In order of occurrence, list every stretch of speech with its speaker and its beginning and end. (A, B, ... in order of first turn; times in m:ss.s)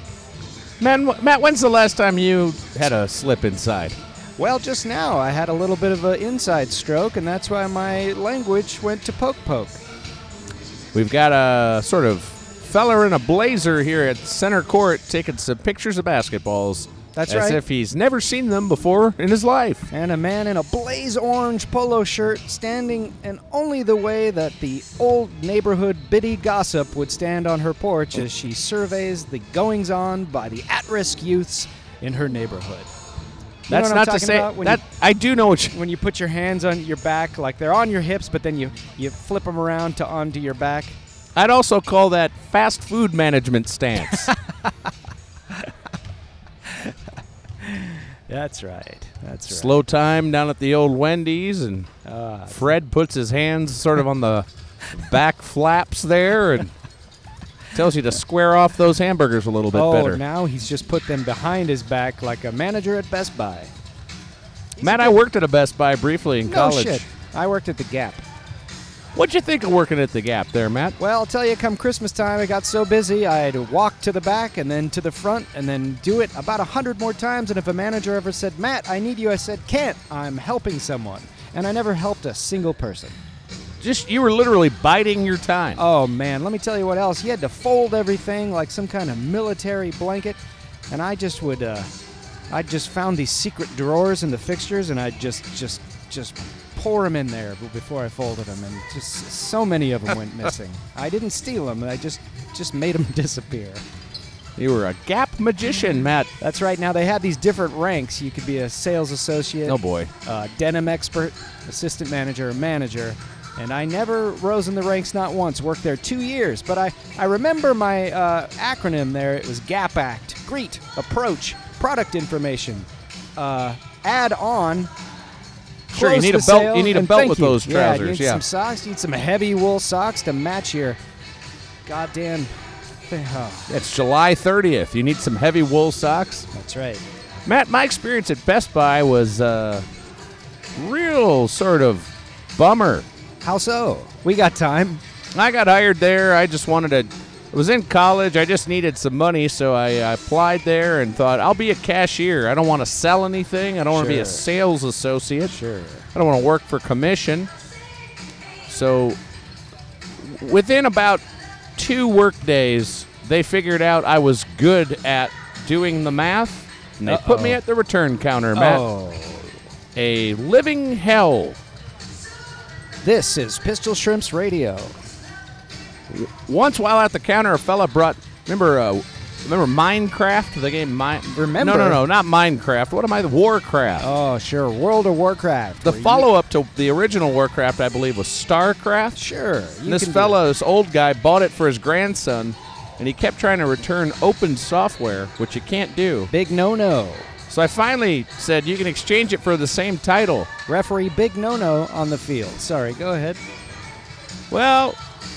0:00.8-0:04.0 A
0:04.4-0:09.8 B
0:10.9-0:19.9 A
0:17.2-0:17.6 B
0:19.9-0:32.9 B
0:33.7-0:34.8 B
0:33.7-0:35.8 A
0:35.7-0:41.0 B
0:41.4-0:44.3 A
0:44.3-0:44.7 B
0:46.7-0:46.9 B
0:47.6-0:49.8 B
0:49.5-0:51.9 A
0:52.0-0:52.6 B
0:52.5-0:56.7 A
0:57.7-1:00.2 A
0:59.7-1:03.7 B
1:04.8-1:05.2 B
1:04.8-1:07.0 A
1:06.5-1:08.2 B
1:09.1-1:11.0 A
1:11.0-1:23.2 B
1:23.8-1:25.8 A
1:25.8-1:30.4 B
1:30.9-1:31.9 B
1:32.5-1:43.8 B
1:44.6-1:46.3 A
1:46.4-2:04.9 B
1:49.7-1:50.1 A
2:05.9-2:08.4 A
2:05.9-2:11.0 B
2:11.8-2:12.5 B
2:13.1-2:13.7 B
2:13.7-2:16.5 A
2:16.5-2:17.0 B
2:17.5-2:19.9 A
2:20.7-2:23.1 A
2:23.4-2:25.0 B
2:25.3-2:35.6 A
2:33.9-2:34.4 B
2:35.5-2:36.1 B
2:36.1-2:37.5 A
2:38.7-2:39.2 A
2:40.2-2:41.2 A
2:41.8-2:48.8 A
2:47.0-2:47.6 B
2:48.5-2:49.6 B
2:50.0-2:51.6 A
2:53.0-2:55.0 B
2:56.1-3:04.1 A
3:01.4-3:02.0 B
3:04.0-3:06.3 B
3:05.8-3:09.2 A
3:09.2-3:10.4 B
3:09.9-3:16.3 A
3:16.3-3:17.3 B
3:17.5-3:20.5 A
3:20.7-3:23.4 B
3:24.5-3:25.0 A